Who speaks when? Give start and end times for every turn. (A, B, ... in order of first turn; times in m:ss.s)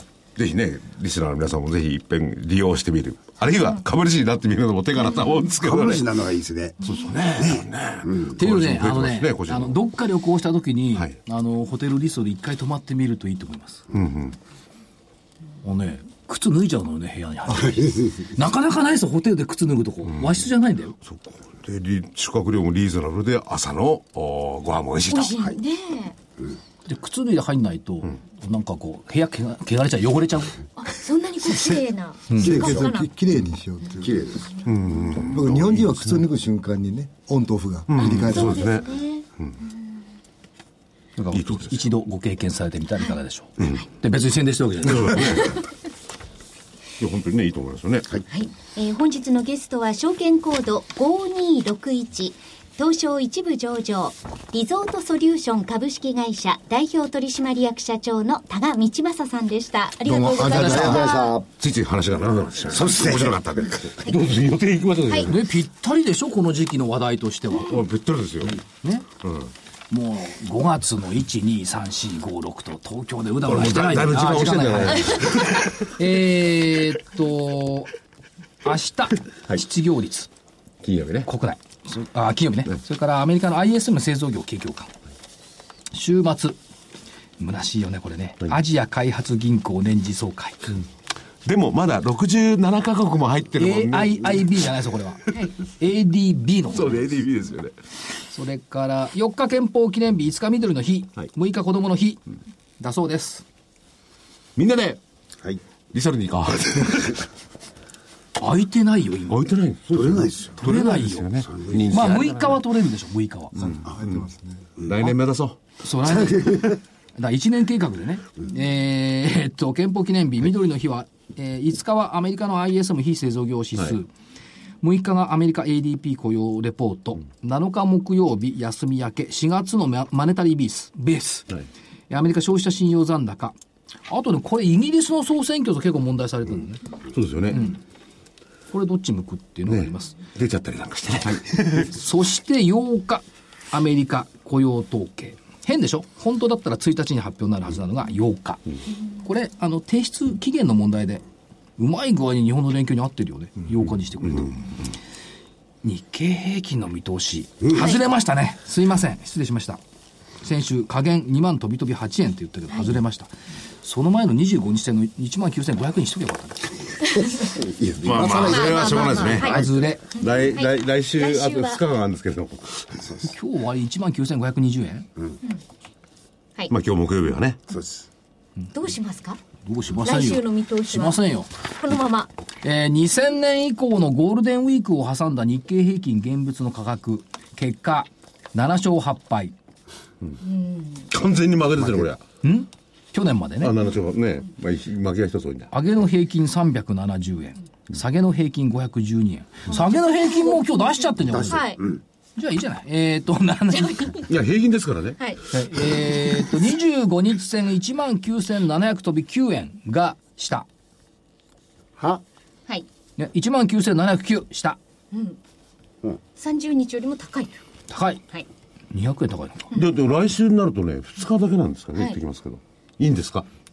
0:00.4-0:06.1 A
0:05.6-0:06.8 B
0:06.8-0:09.8 A
0:07.4-0:08.4 B
0:08.4-0:13.8 C
0:13.9-0:14.4 A
0:15.6-0:21.0 C
0:21.0-0:25.4 A
0:25.1-0:26.2 D
0:26.8-0:30.6 C
0:30.8-0:33.1 D
0:32.4-0:32.9 B
0:32.4-0:34.4 E
0:34.0-0:34.5 B
0:34.7-0:36.2 A
0:35.2-0:38.7 E
0:37.9-0:39.6 A
0:38.2-0:39.2 D
0:41.2-0:45.5 C
0:41.3-0:41.8 A
0:44.8-0:45.6 A
0:47.0-0:48.1 A
0:48.3-1:01.4 D
1:00.0-1:01.2 E
1:00.5-1:01.2 C
1:00.5-1:01.4 B
1:01.6-1:05.4 A
1:02.7-1:03.8 B
1:05.3-1:07.8 C
1:07.6-1:08.6 A
1:08.4-1:09.1 C
1:09.2-1:09.5 A
1:09.9-1:17.9 C
1:13.5-1:15.7 A
1:18.6-1:20.3 C
1:20.8-1:21.3 A
1:21.2-1:24.9 C
1:25.9-1:26.6 C
1:27.4-1:30.8 C
1:31.4-1:34.7 A
1:33.6-1:37.0 C
1:36.7-1:37.7 A
1:38.3-1:42.2 C
1:42.8-1:43.4 C
1:44.6-1:45.0 A
1:45.9-1:47.2 A
1:48.4-1:49.4 C
1:49.3-1:52.6 A
1:49.9-1:50.5 B
1:50.6-1:53.6 C
1:51.6-1:52.0 B
1:53.6-1:54.7 E
1:54.8-1:55.6 A
1:55.8-2:04.1 C
1:56.1-1:56.8 B
2:04.8-2:11.5 C
2:12.1-2:13.6 C
2:14.1-2:16.8 C
2:17.1-2:17.7 A
2:17.5-2:17.8 C
2:18.7-2:20.2 C
2:19.7-2:21.9 A
2:21.6-2:28.6 C
2:29.2-2:31.2 C
2:31.8-2:34.8 C
2:35.8-2:39.8 C
2:37.7-2:38.0 D
2:40.4-2:46.9 C
2:47.2-2:49.8 B
2:48.0-2:49.7 A
2:48.5-2:49.6 D
2:49.3-2:50.1 C
2:50.2-2:51.8 D
2:50.2-2:53.2 A
2:53.3-2:55.1 C
2:56.7-2:57.6 A
2:57.7-2:58.1 B
2:58.7-2:59.4 D
2:59.6-3:01.5 C
3:00.0-3:01.2 D
3:01.8-3:02.3 D
3:02.6-3:09.6 C
3:10.4-3:11.1 D
3:11.1-3:12.2 A
3:11.8-3:12.1 B
3:12.4-3:13.8 C
3:13.6-3:15.7 A
3:15.7-3:21.8 C
3:21.3-3:22.0 B
3:21.5-3:21.8 D
3:22.4-3:24.2 C
3:23.7-3:24.2 D
3:24.3-3:25.3 A
3:25.5-3:30.7 C
3:33.2-3:34.8 C
3:35.1-3:35.4 D
3:36.4-3:37.5 D
3:37.9-3:38.2 C
3:38.9-3:39.7 C
3:39.7-3:43.5 A